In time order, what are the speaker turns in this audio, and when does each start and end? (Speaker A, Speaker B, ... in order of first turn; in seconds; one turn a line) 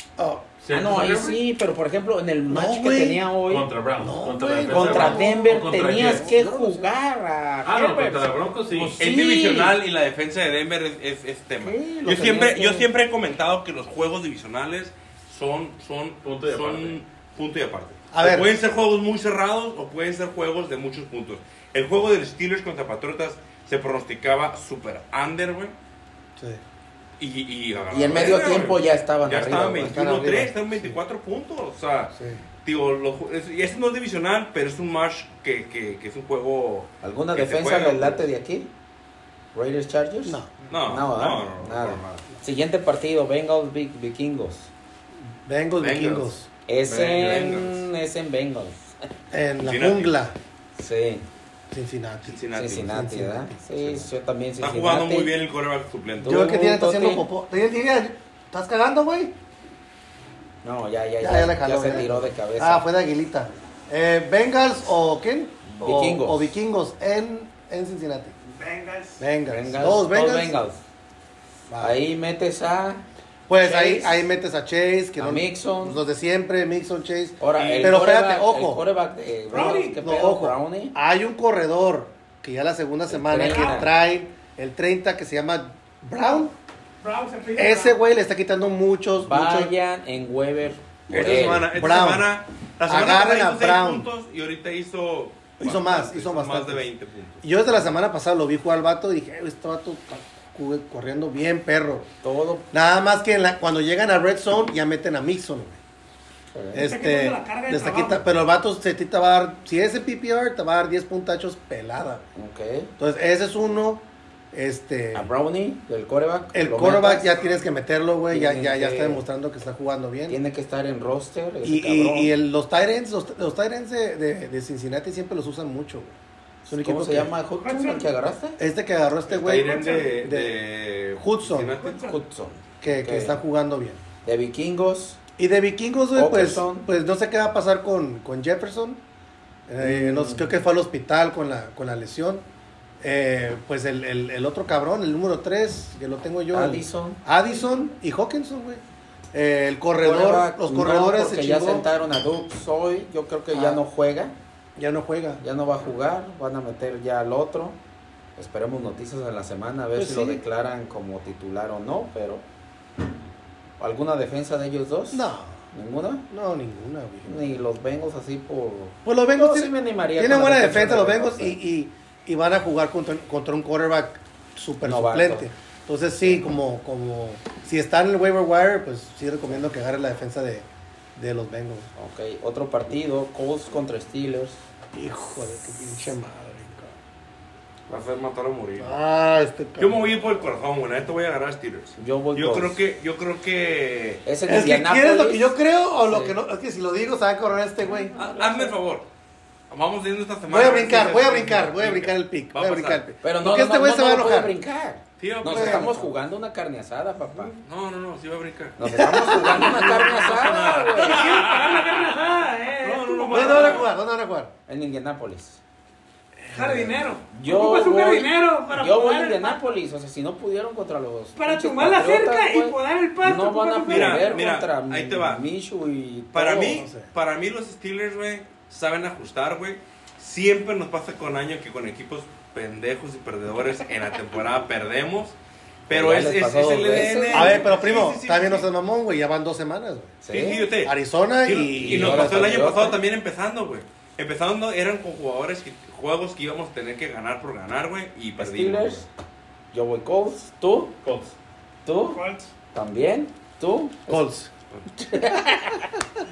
Speaker A: 0.2-0.5
Speaker B: 0.6-1.4
Speaker C: 0.7-3.7
Speaker A: 2.5-3.2
Speaker B: 3.4-6.2
Speaker A: 4.0-6.9
Speaker C: 4.6-8.3
Speaker B: 7.6-9.0
Speaker D: 8.7-25.7
Speaker C: 9.0-9.8
Speaker C: 11.6-12.9
Speaker B: 16.2-17.0
Speaker A: 18.1-18.5
Speaker D: 27.2-38.2
Speaker C: 27.9-29.9
Speaker A: 29.7-30.9
Speaker A: 32.1-32.4
Speaker C: 37.0-38.7
Speaker C: 39.5-44.7
Speaker A: 40.2-40.5
Speaker D: 40.7-42.2
Speaker A: 45.4-46.5
Speaker D: 45.8-46.3
Speaker C: 46.7-49.1
Speaker D: 46.8-47.9
Speaker A: 49.3-50.4
Speaker D: 49.6-50.1
Speaker C: 50.8-51.2
Speaker A: 51.7-54.1
Speaker D: 52.2-53.0
Speaker C: 52.5-55.3
Speaker D: 54.6-56.4
Speaker C: 56.2-57.2
Speaker A: 56.2-59.3
Speaker C: 60.6-62.9
Speaker A: 61.2-68.3
Speaker C: 65.7-66.5
Speaker E: 68.4-69.2
Speaker A: 69.2-70.5
Speaker C: 69.5-70.8
Speaker A: 71.7-72.0
Speaker C: 71.8-73.0
Speaker A: 73.5-78.8
Speaker C: 73.6-74.2
Speaker C: 75.2-76.0
Speaker C: 77.4-81.0
Speaker D: 77.5-78.0
Speaker E: 79.5-80.0
Speaker A: 79.5-86.5
Speaker C: 83.1-83.9
Speaker E: 83.5-83.8
Speaker E: 87.0-88.0
Speaker A: 87.5-89.7
Speaker C: 89.2-91.7
Speaker D: 91.1-97.4
Speaker A: 91.7-92.3
Speaker A: 92.9-94.1
Speaker A: 95.6-96.8
Speaker A: 97.4-102.1
Speaker C: 102.2-102.7
Speaker A: 102.7-105.8
Speaker C: 106.5-106.8
Speaker A: 106.7-112.2
Speaker E: 106.8-108.2
Speaker C: 112.3-112.9
Speaker A: 113.0-115.3
Speaker C: 115.1-117.4
Speaker A: 116.5-120.4
Speaker C: 118.3-119.2
Speaker C: 120.3-122.3
Speaker A: 121.6-126.2
Speaker C: 126.7-128.6
Speaker A: 126.7-127.3
Speaker E: 127.6-128.1
Speaker A: 128.6-130.5
Speaker D: 129.3-132.1
Speaker E: 129.3-130.2
Speaker A: 131.2-131.7
Speaker E: 131.8-132.2
Speaker C: 132.0-133.4
Speaker A: 132.8-134.0
Speaker C: 134.2-135.2
Speaker A: 135.4-139.0
Speaker C: 136.1-136.9
Speaker A: 139.7-142.4
Speaker C: 139.8-140.6
Speaker A: 143.0-148.8
Speaker C: 146.5-147.2
Speaker A: 149.3-151.9
Speaker C: 150.0-154.3
Speaker A: 153.5-153.8
Speaker A: 154.8-155.4
Speaker C: 155.4-157.8
Speaker C: 158.4-162.4
Speaker A: 159.9-160.4
Speaker C: 163.8-166.2
Speaker A: 165.1-165.6
Speaker A: 166.3-167.5
Speaker C: 167.3-171.6
Speaker A: 169.0-181.9
Speaker C: 174.8-175.5
Speaker C: 176.2-176.4
Speaker C: 181.9-184.6
Speaker A: 184.9-186.9
Speaker D: 187.9-189.0
Speaker A: 188.8-190.0
Speaker D: 189.8-194.2
Speaker C: 192.0-192.8
Speaker C: 194.2-196.4
Speaker A: 194.4-198.1
Speaker C: 197.9-198.7
Speaker D: 198.2-199.0
Speaker D: 199.7-203.0
Speaker A: 200.5-204.5
Speaker C: 203.2-207.6
Speaker D: 205.2-206.1
Speaker A: 205.4-206.1
Speaker D: 207.5-212.2
Speaker C: 208.8-211.4
Speaker A: 208.8-210.3
Speaker E: 211.0-213.8
Speaker D: 212.8-213.9
Speaker A: 213.3-214.5
Speaker C: 214.7-215.6
Speaker A: 216.4-216.9
Speaker E: 216.5-219.7
Speaker C: 217.3-226.8
Speaker E: 221.3-224.4
Speaker D: 223.9-225.4
Speaker D: 226.3-235.3
Speaker A: 226.6-227.1
Speaker D: 235.9-238.7
Speaker C: 235.9-237.6
Speaker A: 237.3-240.2
Speaker C: 240.2-240.7
Speaker D: 240.3-249.1
Speaker A: 240.8-242.7
Speaker C: 241.5-243.0
Speaker C: 248.4-249.1
Speaker C: 249.7-250.9
Speaker B: 251.0-251.3
Speaker C: 251.8-252.2
Speaker E: 252.1-252.5
Speaker C: 252.7-254.2
Speaker A: 254.1-254.5
Speaker C: 254.9-255.9